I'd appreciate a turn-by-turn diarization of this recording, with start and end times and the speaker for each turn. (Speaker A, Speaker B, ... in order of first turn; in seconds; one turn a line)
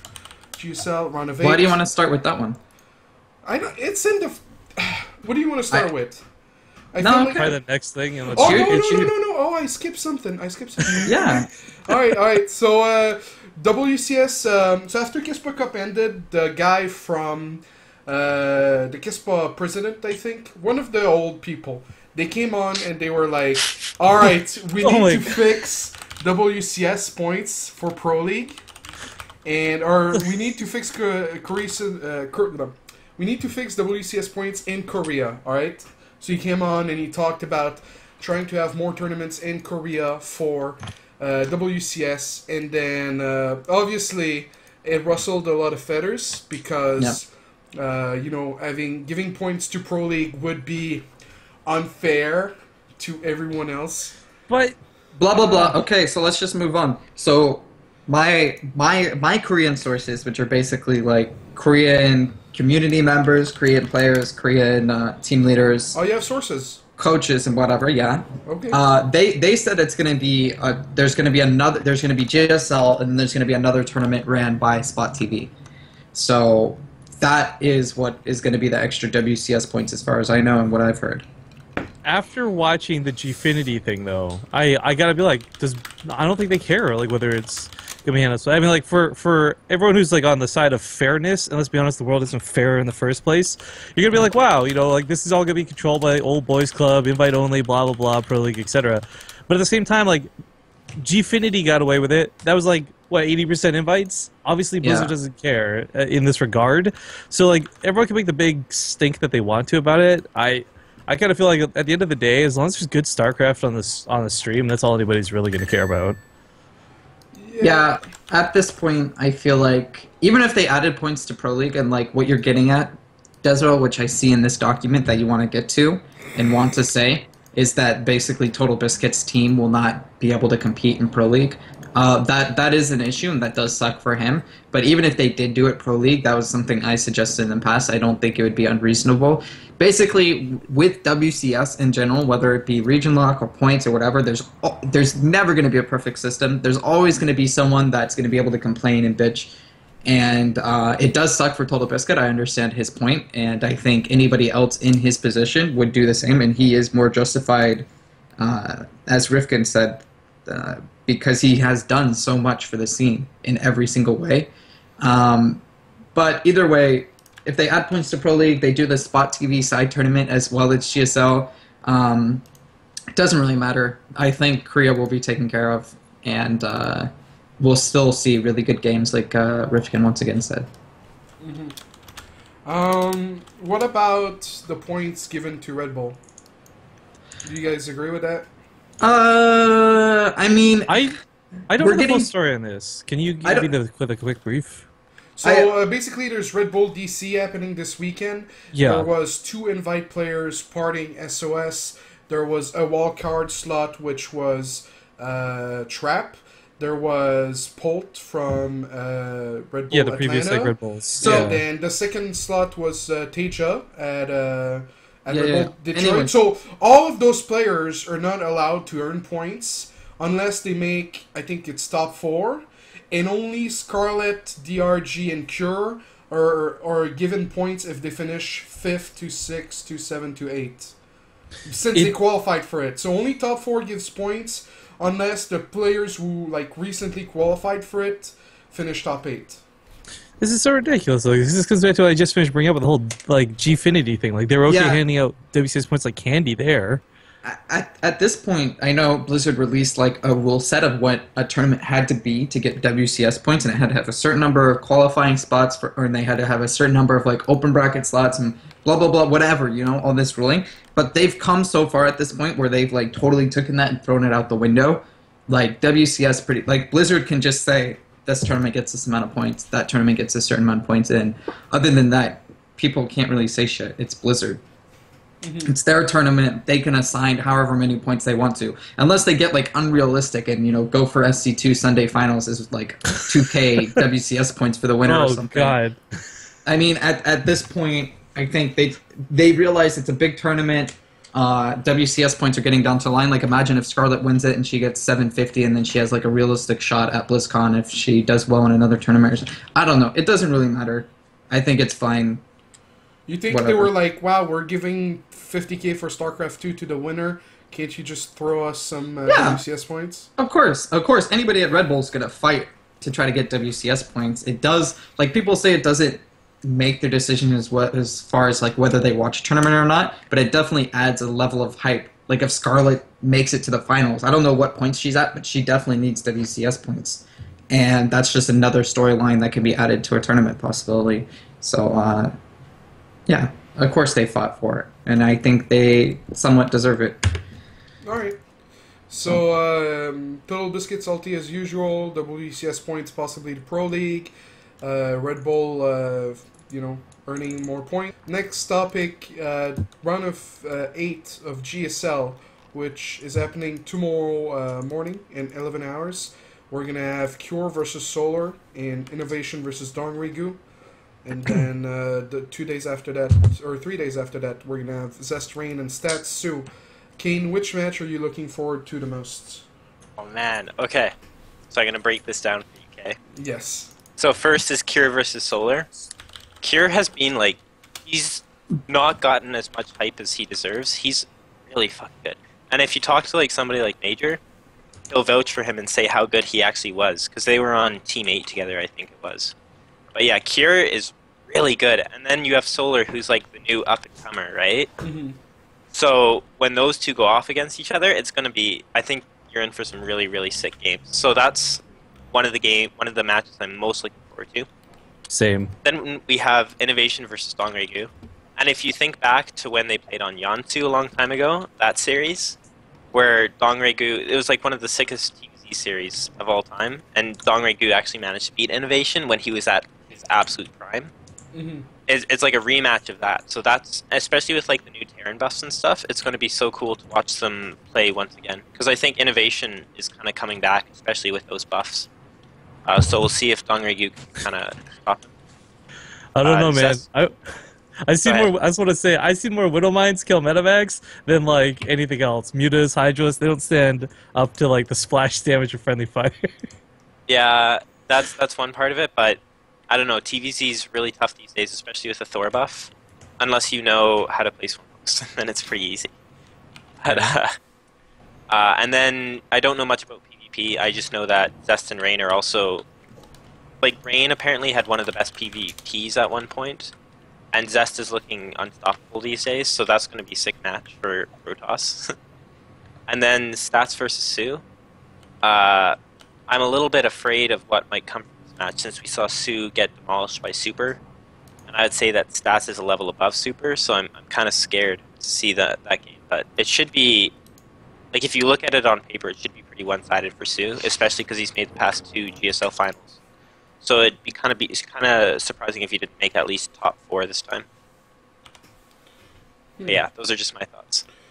Speaker A: 0.6-1.8
Speaker B: 1.4-2.6
Speaker A: 3.4-6.2
Speaker A: 6.9-7.4
Speaker B: 7.0-7.6
Speaker C: 7.3-9.1
Speaker B: 8.3-9.1
Speaker A: 8.3-28.6
Speaker B: 11.0-11.5
Speaker C: 24.8-25.4
Speaker A: 29.4-51.0
Speaker A: 51.6-54.2
Speaker C: 54.5-54.8
Speaker B: 55.2-66.0
Speaker A: 55.3-55.8
Speaker A: 65.9-66.8
Speaker B: 67.0-75.5
Speaker A: 68.5-68.8
Speaker B: 76.1-81.2
Speaker C: 82.0-100.3
Speaker C: 101.0-116.2
Speaker B: 104.8-105.1
Speaker A: 117.3-118.0
Speaker B: 117.6-149.5
Speaker B: 150.1-157.9
Speaker B: 158.4-164.5
Speaker B: 165.0-165.6
Speaker B: 166.1-172.4
Speaker B: 173.1-180.7
Speaker A: 181.4-181.8
Speaker A: 182.7-186.2
Speaker A: 187.4-188.5
Speaker B: 189.0-191.1
Speaker C: 190.9-194.8
Speaker B: 191.8-192.3
Speaker B: 193.4-193.7
Speaker A: 195.4-230.9
Speaker B: 195.4-195.7
Speaker C: 198.7-199.1
Speaker C: 209.9-211.6
Speaker B: 211.2-211.6
Speaker B: 215.3-216.3
Speaker A: 231.6-239.6
Speaker C: 240.4-247.0
Speaker B: 244.7-245.0
Speaker B: 247.4-274.6
Speaker A: 275.4-275.8
Speaker B: 275.6-285.8
Speaker C: 285.1-286.0
Speaker B: 286.6-302.4
Speaker A: 303.3-310.3
Speaker B: 303.5-303.9
Speaker B: 309.3-309.6
Speaker B: 310.4-332.3
Speaker B: 333.3-337.4
Speaker A: 338.0-338.4
Speaker A: 339.1-360.6
Speaker A: 361.2-369.7
Speaker D: 370.2-371.1
Speaker D: 371.7-373.2
Speaker A: 373.4-373.9
Speaker D: 374.2-375.9
Speaker D: 376.6-384.4
Speaker D: 385.1-389.5
Speaker D: 390.1-394.9
Speaker A: 395.0-395.4
Speaker D: 395.9-404.7
Speaker C: 405.3-405.7
Speaker D: 405.8-412.6
Speaker D: 413.1-421.1
Speaker A: 421.5-421.9
Speaker D: 422.1-432.1
Speaker D: 432.9-435.3
Speaker C: 436.3-437.3
Speaker D: 436.4-437.0
Speaker C: 438.1-446.6
Speaker D: 447.3-449.4
Speaker D: 449.9-456.1
Speaker D: 457.0-457.5
Speaker C: 457.1-457.3
Speaker D: 458.5-462.8
Speaker D: 463.8-466.9
Speaker D: 467.5-472.1
Speaker D: 473.1-474.6
Speaker D: 475.4-475.9
Speaker D: 476.5-481.0
Speaker D: 481.7-487.3
Speaker D: 488.1-493.2
Speaker D: 493.8-497.6
Speaker A: 499.8-500.0
Speaker D: 499.9-501.0